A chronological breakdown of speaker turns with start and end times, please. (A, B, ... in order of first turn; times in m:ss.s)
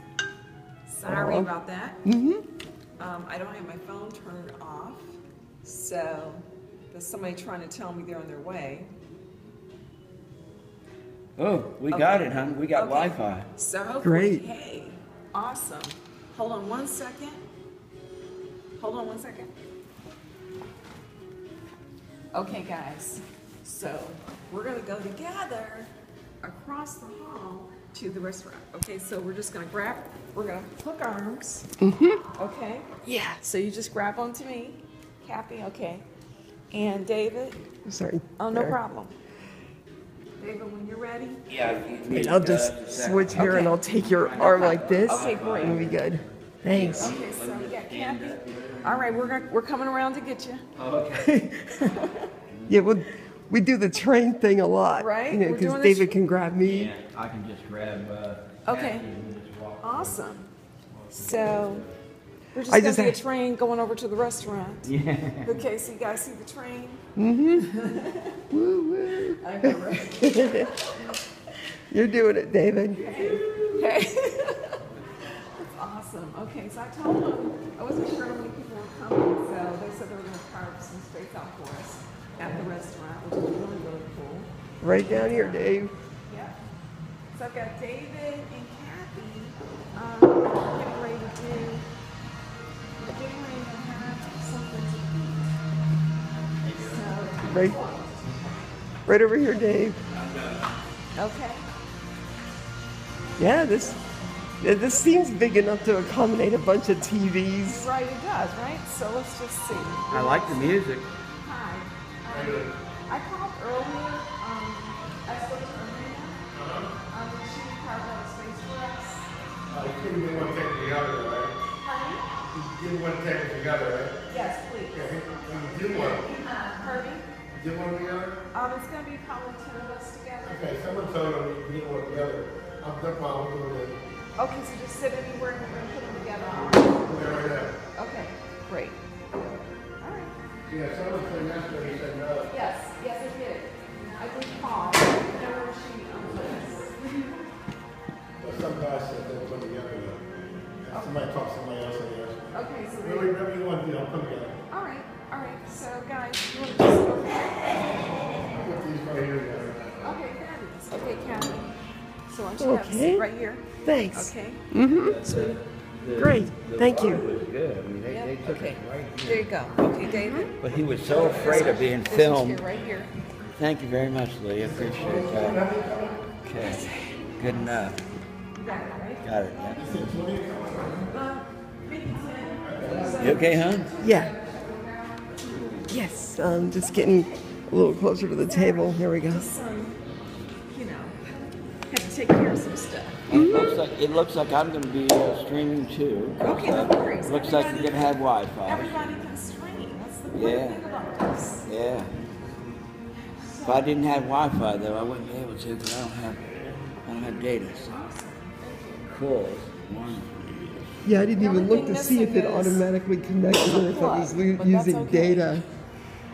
0:00.8-0:02.0 A
0:01.0-0:01.5 B
0:02.0-0:02.4 B
0:03.0-0:08.9 A
0:11.4-0:13.5 C
0:11.9-0:17.4 A
0:14.0-0:14.4 B
0:18.8-0:19.5 A
0:22.3-0:25.9 A
0:26.4-0:31.7 A
0:31.8-0:32.2 B
0:32.3-0:36.0 A
0:33.0-0:33.4 B
0:36.7-0:37.6 A
0:37.8-0:38.8 B
0:38.4-0:39.1 A
0:40.4-0:41.4 A
0:41.5-0:49.4 C
0:42.1-0:47.2 B
0:43.3-0:46.0 A
0:46.9-0:50.6 A
0:50.7-0:51.4 C
0:51.2-0:51.9 B
0:51.8-0:52.3 A
0:52.5-0:52.8 C
0:52.7-0:56.9 B
0:55.0-0:56.2 A
0:56.6-1:00.2 C
0:58.6-0:59.1 A
0:59.8-1:00.5 A
1:00.9-1:01.9 C
1:01.1-1:01.8 A
1:02.5-1:04.9 A
1:02.7-1:03.2 B
1:04.8-1:05.6 C
1:05.4-1:08.4 A
1:07.2-1:07.6 B
1:08.5-1:10.8 B
1:09.1-1:11.2 A
1:11.9-1:13.6 B
1:12.9-1:26.5 A
1:24.8-1:25.9 B
1:27.3-1:31.8 A
1:33.0-1:35.5 A
1:36.6-1:37.0 C
1:36.7-1:38.4 A
1:37.4-1:37.8 B
1:39.0-1:40.0 B
1:40.1-1:40.7 C
1:41.1-1:41.7 A
1:43.4-1:44.0 B
1:44.6-1:47.9 B
1:47.6-1:50.8 A
1:50.1-1:51.1 C
1:51.4-1:56.4 A
1:52.3-1:52.7 D
1:56.5-1:56.9 D
1:57.1-1:59.3 A
1:59.7-2:01.6 D
2:01.8-2:02.3 A
2:02.5-2:04.2 D
2:04.3-2:07.3 A
2:04.9-2:06.3 D
2:07.5-2:08.4 D
2:08.5-2:10.7 A
2:10.4-2:14.0 D
2:14.4-2:19.0 A
2:16.9-2:17.8 D
2:20.0-2:20.3 A
2:20.6-2:22.5 D
2:22.5-2:27.4 A
2:28.4-2:30.3 D
2:30.8-2:34.6 D
2:30.9-2:31.3 A
2:32.5-2:33.3 A
2:34.7-2:38.2 A
2:38.5-2:40.2 D
2:40.0-2:41.8 A
2:42.3-2:44.6 A
2:42.6-2:43.2 B
2:43.8-2:45.2 B
2:44.8-2:49.5 C
2:46.2-2:47.2 B
2:48.1-2:53.1 A
2:50.0-2:50.5 B
2:50.6-2:52.6 C
2:51.1-2:51.6 D
2:53.6-2:55.7 C
2:54.6-2:56.2 D
2:56.4-2:58.0 C
2:56.5-2:57.8 A
2:58.5-3:00.0 A
2:59.2-2:59.8 C
2:59.8-3:01.1 D
3:01.1-3:05.9 A
3:02.6-3:03.5 D
3:03.1-3:03.9 C
3:04.0-3:04.3 B
3:05.9-3:09.5 B
3:08.4-3:10.0 A
3:10.7-3:13.4 A
3:13.3-3:19.3 C
3:13.3-3:13.7 B
3:16.4-3:18.1 A
3:18.6-3:21.7 A
3:20.3-3:20.8 C
3:21.6-3:22.1 C
3:23.3-3:23.9 A
3:23.6-3:28.0 C
3:27.8-3:29.0 A
3:29.0-3:31.0 C
3:31.0-3:35.6 B
3:31.3-3:32.9 A
3:33.5-3:35.6 A